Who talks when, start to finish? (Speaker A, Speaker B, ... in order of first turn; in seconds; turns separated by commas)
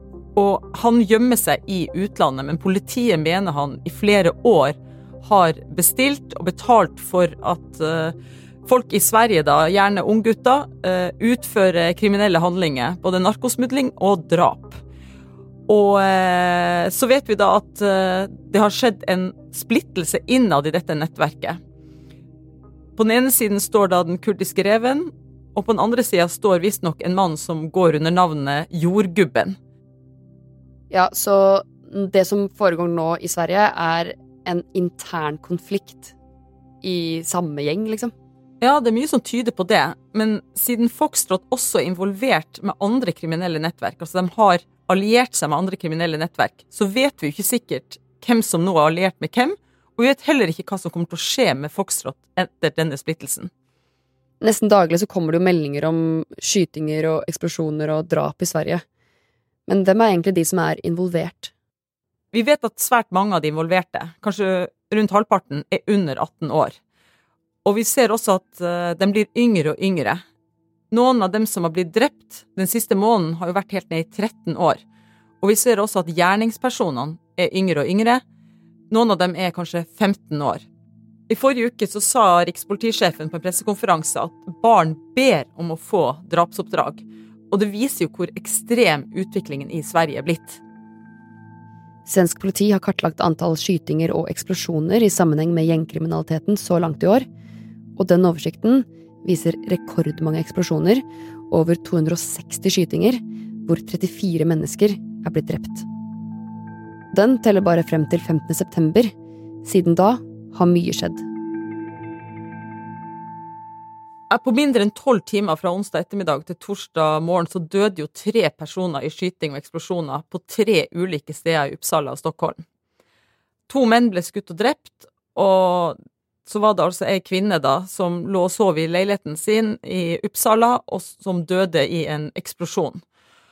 Speaker A: 0.3-8.1, Speaker A: 8.7-14.8, Speaker A: 15.7-21.6, Speaker A: 23.0-29.6, Speaker B: 30.9-36.1, Speaker B: 36.8-38.1, Speaker A: 38.6-53.5, Speaker B: 54.4-58.8, Speaker B: 59.7-61.5, Speaker A: 62.3-66.8, Speaker A: 67.6-70.2, Speaker A: 70.9-74.8, Speaker A: 75.4-78.2, Speaker A: 78.9-80.6, Speaker A: 81.3-90.6, Speaker B: 92.0-97.2, Speaker B: 98.0-105.8, Speaker B: 107.1-109.1, Speaker B: 109.6-111.2, Speaker A: 114.3-122.6, Speaker A: 123.7-133.0